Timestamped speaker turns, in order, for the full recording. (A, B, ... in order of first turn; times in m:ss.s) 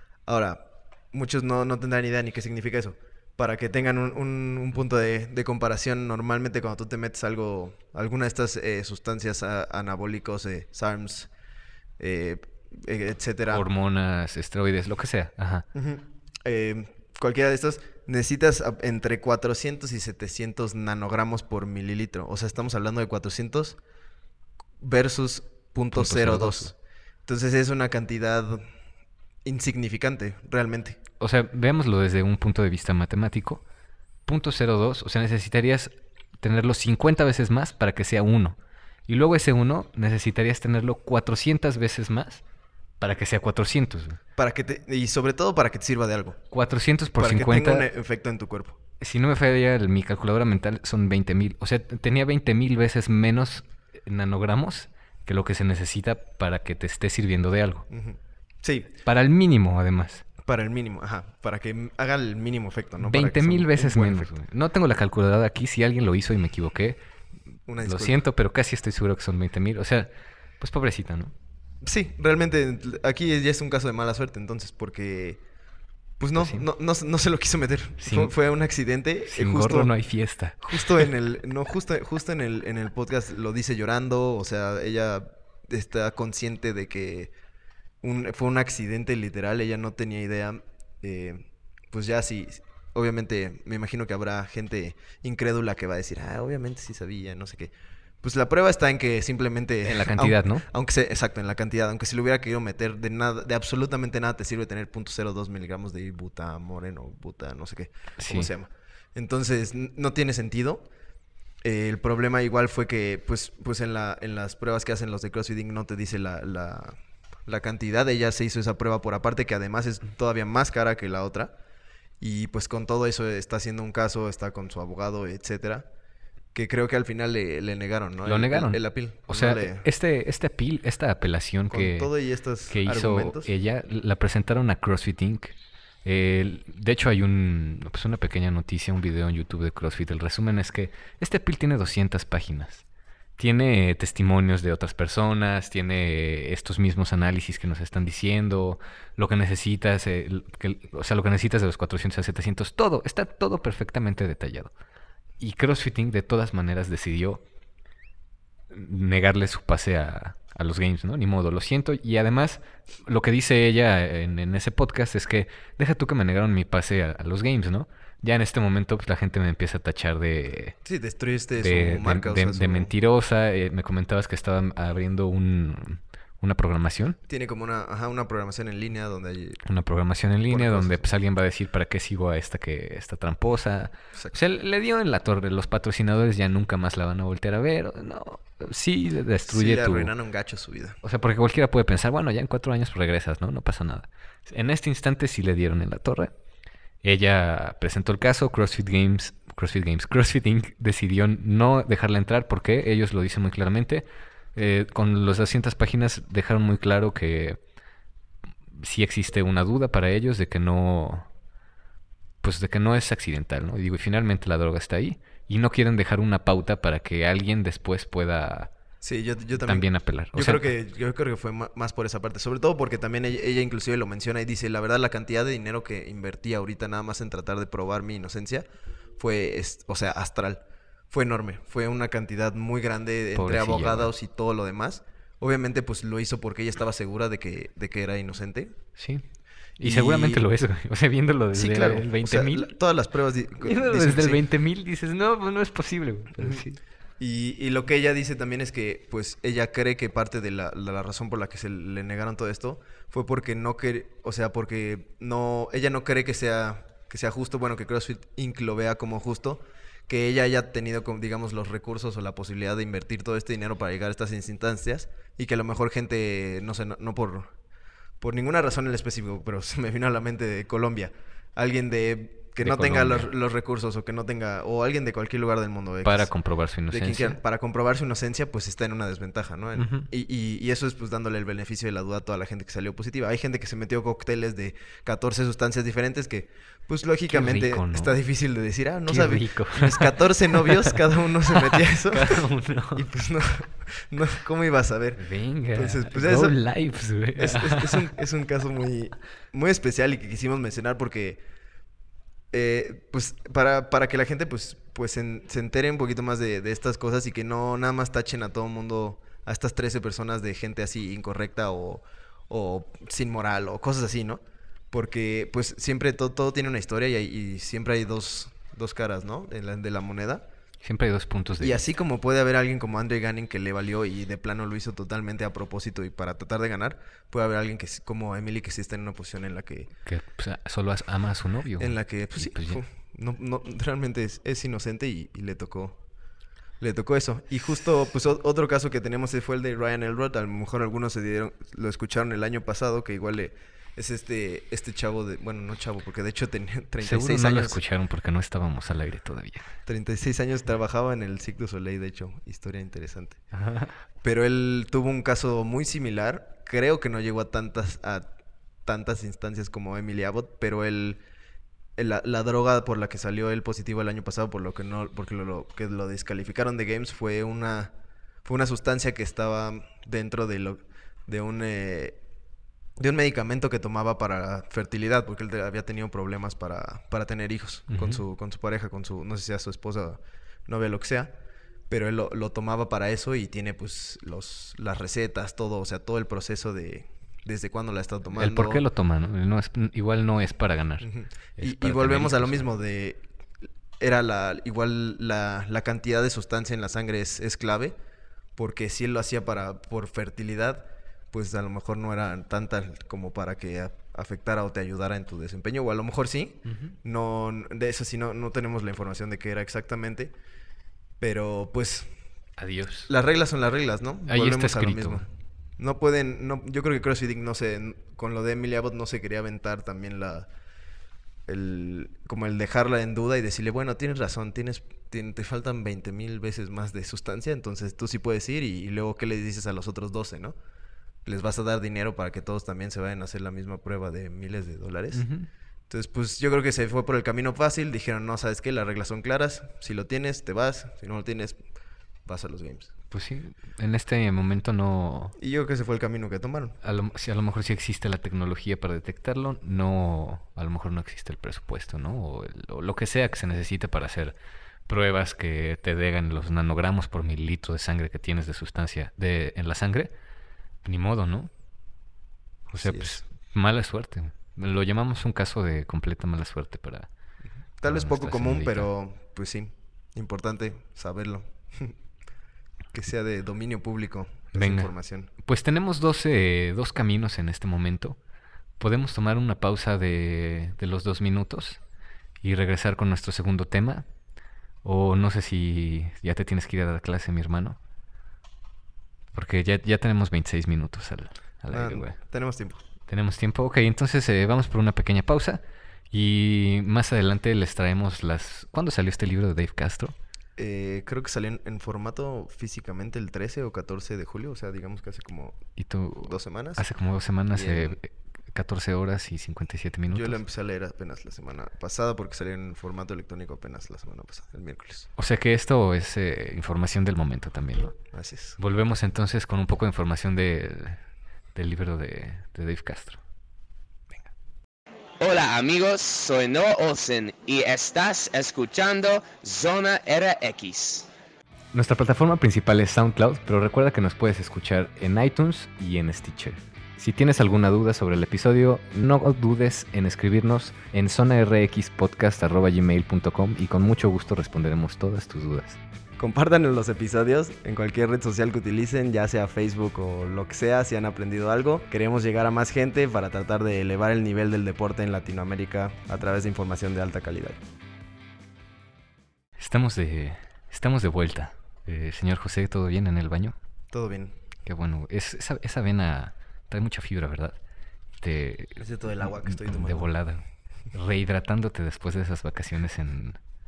0:00.3-0:11.3 A
0:12.0-0:13.6 A
0:13.5-0:15.6 B
0:15.7-0:23.8 A
0:24.8-0:26.7 A
0:25.9-0:26.7 B
0:27.2-0:28.6 A
0:29.4-0:31.0 A
0:31.2-0:33.6 B
0:34.2-0:42.4 B
0:43.0-0:44.2 B
0:44.4-0:46.4 A
0:46.5-0:47.9 B
0:47.2-0:48.8 A
0:49.0-0:57.8 B
0:57.9-0:58.9 A
0:59.0-1:00.2 B
1:00.4-1:04.3 A
1:03.0-1:07.0 B
1:07.7-1:08.2 A
1:07.8-1:11.3 B
1:11.8-1:15.4 A
1:16.2-1:19.9 A
1:16.4-1:16.6 B
1:18.0-1:18.3 B
1:19.3-1:21.1 B
1:20.6-1:27.3 A
1:28.0-1:50.9 A
1:39.8-1:40.6 B
1:48.2-1:48.5 B
1:51.6-2:01.5 A
2:02.2-2:05.9 A
2:06.5-2:09.9 A
2:08.2-2:12.1 B
2:11.7-2:13.5 A
2:12.7-2:22.8 B
2:23.4-2:34.7 B
2:35.4-2:37.4 B
2:38.7-2:50.8 B
2:50.8-2:52.9 A
2:51.6-2:57.2 B
2:57.3-2:59.6 A
2:59.6-3:10.1 B
3:00.5-3:01.1 A
3:09.5-3:11.0 A
3:11.0-3:16.3 B
3:17.0-3:27.6 B
3:28.7-3:31.3 B
3:32.4-3:38.7 B
3:39.0-3:58.8 A
3:39.6-3:40.7 B
3:53.3-3:54.1 B
3:59.0-3:59.2 B
3:59.8-4:02.7 B
3:59.8-4:00.4 A
4:01.5-4:04.4 A
4:03.6-4:06.8 B
4:06.4-4:06.6 A
4:07.2-4:27.5 A
4:28.2-4:36.3 A
4:32.6-4:33.3 B
4:36.0-4:37.4 B
4:36.9-4:55.2 A
4:39.8-4:40.1 B
4:47.3-4:48.2 B
4:49.1-4:53.0 B
4:55.2-4:58.1 B
4:55.7-4:56.6 A
4:57.4-5:01.4 A
5:02.5-5:20.4 A
5:20.8-5:21.8 B
5:21.6-5:29.9 A
5:30.0-5:32.8 B
5:31.8-5:36.0 A
5:36.8-5:47.8 A
5:47.0-5:49.7 B
5:49.8-5:53.4 A
5:53.5-5:53.9 B
5:54.2-5:58.3 A
5:58.8-6:01.2 A
6:02.0-6:07.9 A
6:08.4-6:12.2 A
6:13.0-6:21.4 A
6:17.9-6:18.2 B
6:21.9-6:28.8 A
6:28.3-6:32.7 B
6:31.0-6:33.3 A
6:34.0-6:37.9 A
6:38.6-6:50.3 A
6:46.6-6:46.9 B
6:51.2-6:52.1 A
6:52.6-6:53.1 B
6:53.1-7:00.5 A
6:54.2-6:55.2 B
7:01.5-7:10.6 A
7:11.2-7:15.2 A
7:15.1-7:15.5 B
7:15.9-7:21.6 A
7:22.2-7:22.9 A
7:23.1-7:25.4 B
7:25.4-7:26.8 A
7:26.8-7:34.3 B
7:34.9-7:40.1 B
7:40.8-7:41.5 B
7:42.7-7:47.1 B
7:42.7-7:43.2 A
7:47.8-7:52.0 A
7:47.8-7:48.9 B
7:52.9-7:55.3 A
7:54.5-7:58.2 B
7:58.8-8:01.8 B
8:02.4-8:04.1 B
8:04.8-8:07.8 B
8:09.3-8:12.2 B
8:11.7-8:12.8 A
8:13.1-8:20.2 B
8:20.6-8:25.7 A
8:25.8-8:30.4 B
8:26.2-8:26.8 A
8:27.5-8:28.0 A
8:30.1-8:35.1 A
8:35.2-8:38.0 B
8:38.1-8:38.6 A
8:38.6-8:41.0 B
8:41.5-8:43.2 B
8:45.2-8:51.1 C
8:51.7-9:05.8 B
9:06.2-9:17.6 A
9:19.6-9:23.6 B
9:23.9-9:24.4 A
9:24.6-9:27.6 B
9:28.2-9:33.4 B
9:28.8-9:30.1 A